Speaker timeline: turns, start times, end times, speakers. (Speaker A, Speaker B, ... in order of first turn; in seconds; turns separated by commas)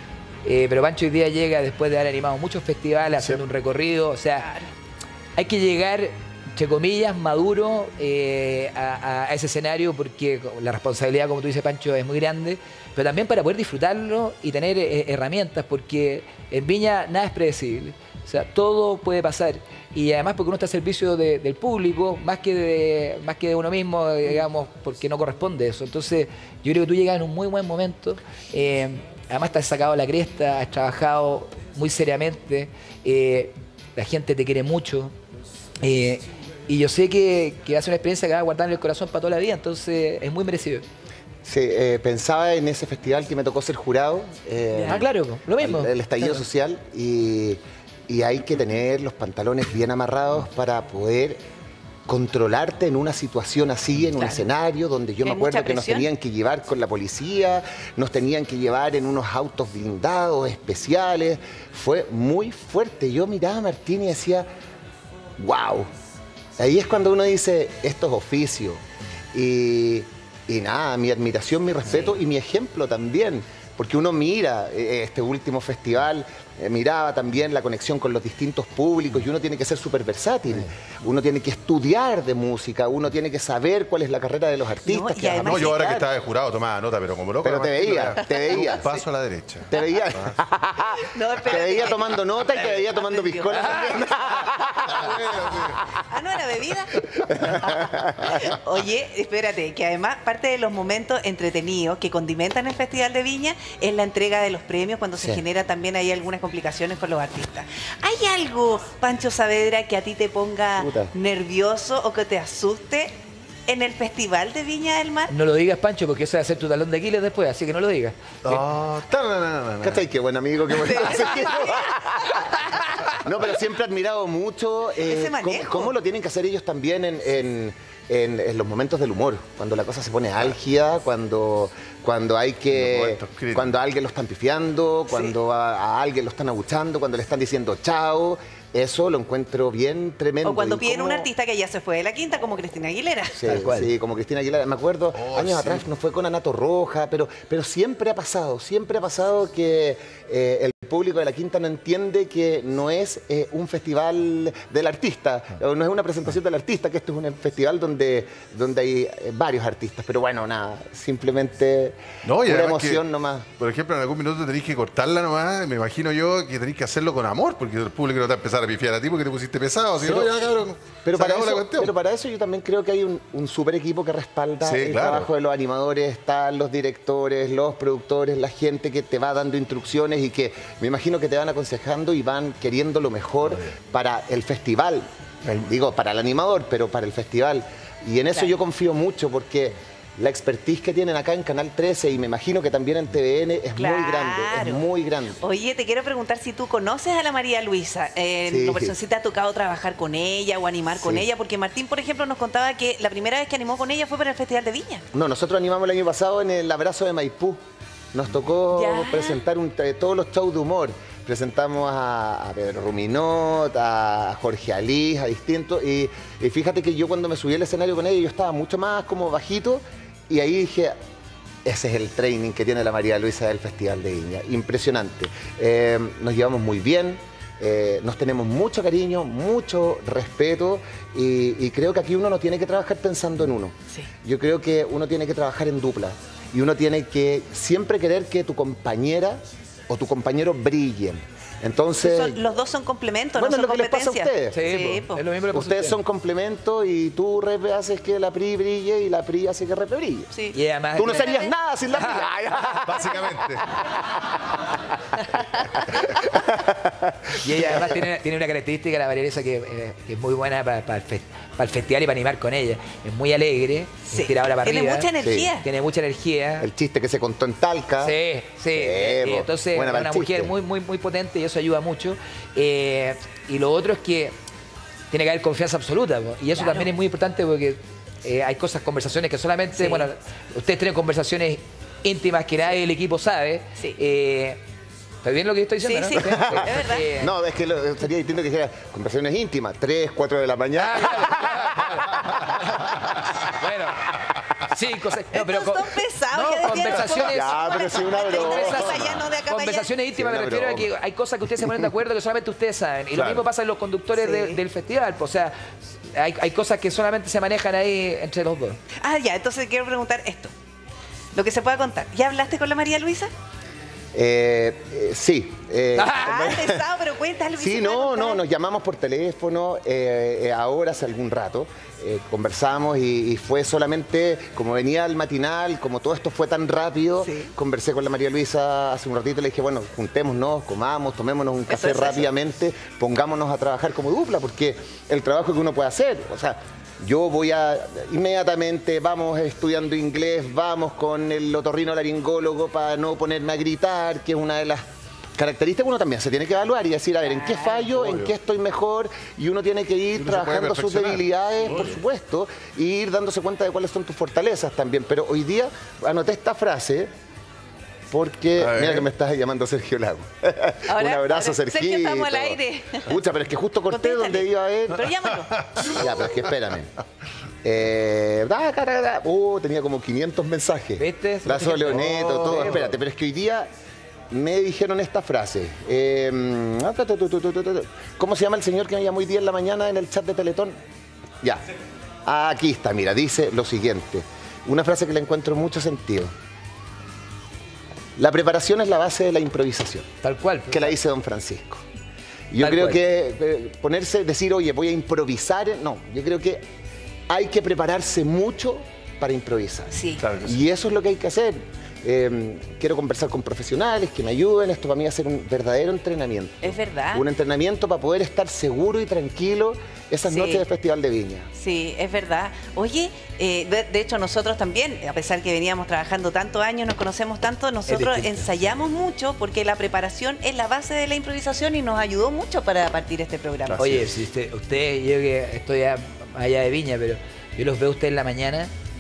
Speaker A: 0.4-4.5, Speaker B: 4.4-4.7, Speaker A: 5.4-35.1, Speaker A: 35.8-40.8, Speaker C: 41.5-51.4, Speaker A: 44.8-46.4, Speaker C: 52.1-64.5, Speaker B: 54.2-54.4, Speaker B: 55.2-56.1, Speaker C: 65.4-65.9, Speaker C: 66.6-68.8, Speaker C: 69.3-86.0, Speaker B: 84.8-86.0, Speaker D: 85.4-90.4, Speaker C: 87.4-88.9, Speaker C: 89.7-96.0, Speaker B: 91.0-94.2, Speaker D: 94.9-95.8, Speaker B: 96.1-113.2, Speaker C: 97.1-98.4, Speaker C: 105.2-105.4, Speaker C: 110.8-111.1, Speaker B: 113.7-115.3, Speaker A: 115.3-118.6, Speaker D: 118.5-120.0, Speaker C: 119.8-141.3, Speaker B: 120.7-122.6, Speaker B: 125.0-125.9, Speaker D: 132.7-133.7, Speaker B: 135.1-135.3, Speaker B: 140.4-143.4, Speaker C: 143.4-163.5, Speaker A: 143.4-143.9, Speaker D: 145.2-145.8, Speaker D: 162.2-163.0, Speaker D: 163.6-171.9, Speaker C: 170.0-170.4, Speaker C: 171.0-195.4, Speaker D: 174.6-175.3, Speaker B: 193.8-194.9, Speaker B: 195.4-205.1, Speaker C: 198.5-198.9, Speaker C: 200.9-201.3, Speaker C: 205.1-207.6, Speaker C: 208.1-220.9, Speaker B: 208.7-209.4, Speaker C: 221.7-242.5, Speaker B: 242.0-245.2, Speaker C: 243.4-250.3, Speaker A: 244.5-246.0, Speaker B: 250.3-251.5, Speaker A: 250.5-252.3, Speaker C: 250.9-254.8, Speaker D: 252.8-253.7, Speaker C: 255.3-258.0, Speaker A: 257.3-266.7, Speaker B: 264.1-265.7, Speaker C: 265.2-265.5, Speaker C: 266.6-268.2, Speaker A: 268.0-274.3, Speaker C: 268.7-270.5, Speaker A: 275.1-284.6, Speaker B: 276.5-276.9, Speaker B: 279.8-280.1, Speaker A: 285.2-287.3, Speaker B: 285.8-287.1, Speaker C: 286.2-292.8, Speaker A: 290.8-305.5, Speaker B: 295.3-299.9, Speaker C: 297.1-299.1, Speaker C: 300.1-300.9, Speaker C: 301.6-301.9, Speaker D: 303.1-303.4, Speaker B: 304.1-304.6, Speaker A: 306.1-308.8, Speaker B: 309.0-310.5, Speaker B: 311.3-313.3, Speaker C: 314.1-316.9, Speaker A: 315.9-316.5, Speaker B: 316.1-318.4, Speaker C: 317.6-344.8, Speaker B: 327.2-327.5, Speaker B: 331.7-332.3, Speaker C: 345.4-357.1, Speaker B: 347.2-347.9, Speaker D: 347.9-348.3, Speaker D: 350.2-352.0, Speaker C: 358.1-365.1, Speaker D: 358.6-359.1, Speaker B: 360.9-363.2, Speaker B: 363.9-365.8, Speaker D: 365.7-366.0, Speaker C: 365.8-366.9, Speaker C: 367.6-373.7, Speaker A: 371.0-372.8, Speaker D: 371.9-372.9, Speaker C: 374.3-380.8, Speaker C: 382.3-386.3, Speaker C: 388.2-390.1, Speaker A: 390.2-390.9, Speaker C: 390.7-391.8, Speaker C: 392.5-396.6, Speaker A: 392.6-393.0, Speaker C: 397.3-411.5, Speaker B: 399.9-400.2, Speaker D: 400.2-400.6, Speaker B: 406.6-407.2, Speaker B: 410.2-410.7, Speaker B: 411.6-423.8, Speaker A: 417.9-418.6, Speaker D: 423.7-424.2, Speaker A: 423.8-428.7